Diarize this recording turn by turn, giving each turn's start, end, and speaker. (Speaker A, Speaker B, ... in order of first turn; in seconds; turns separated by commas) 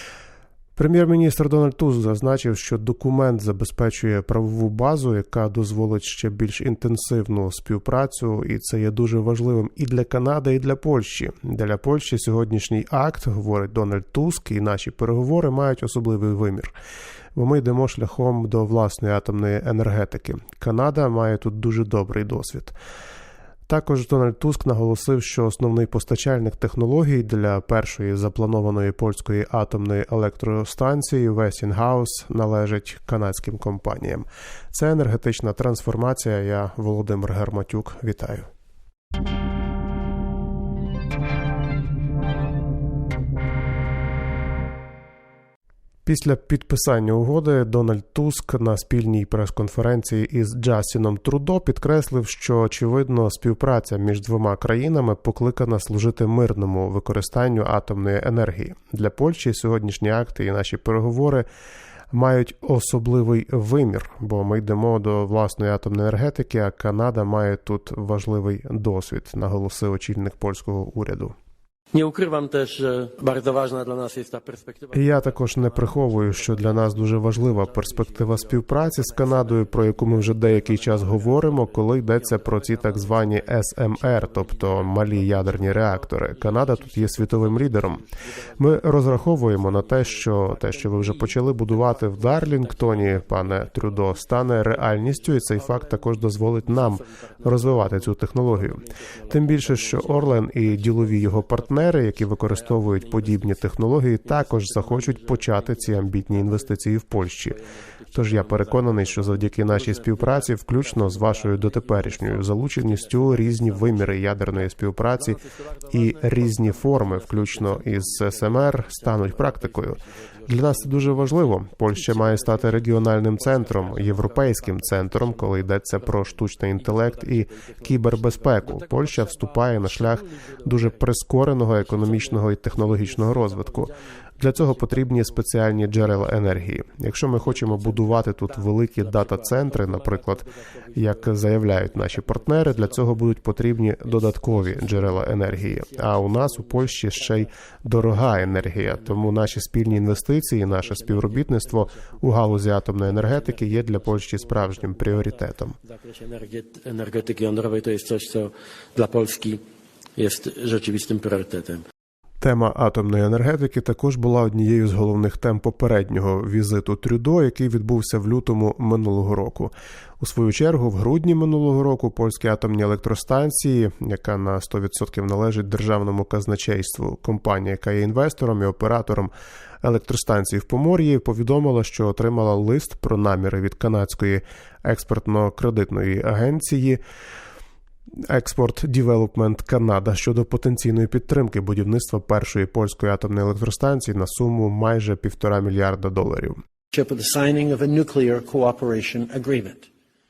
Speaker A: 0.8-16.7, Speaker A: 17.3-22.7, Speaker A: 23.7-38.5, Speaker A: 46.0-61.5, Speaker A: 62.1-71.3, Speaker B: 71.9-83.5, Speaker A: 74.9-88.0, Speaker B: 84.1-84.6, Speaker B: 86.6-86.9, Speaker B: 88.0-91.3, Speaker A: 88.6-107.6, Speaker B: 92.2-106.8, Speaker B: 107.5-114.7, Speaker A: 108.1-155.8, Speaker B: 116.4-117.1, Speaker B: 120.4-121.1, Speaker B: 121.9-136.7, Speaker B: 137.3-143.2, Speaker B: 144.0-159.6, Speaker B: 160.2-161.8, Speaker A: 162.4-179.3, Speaker A: 179.8-187.0, Speaker A: 188.3-196.6, Speaker C: 196.9-199.9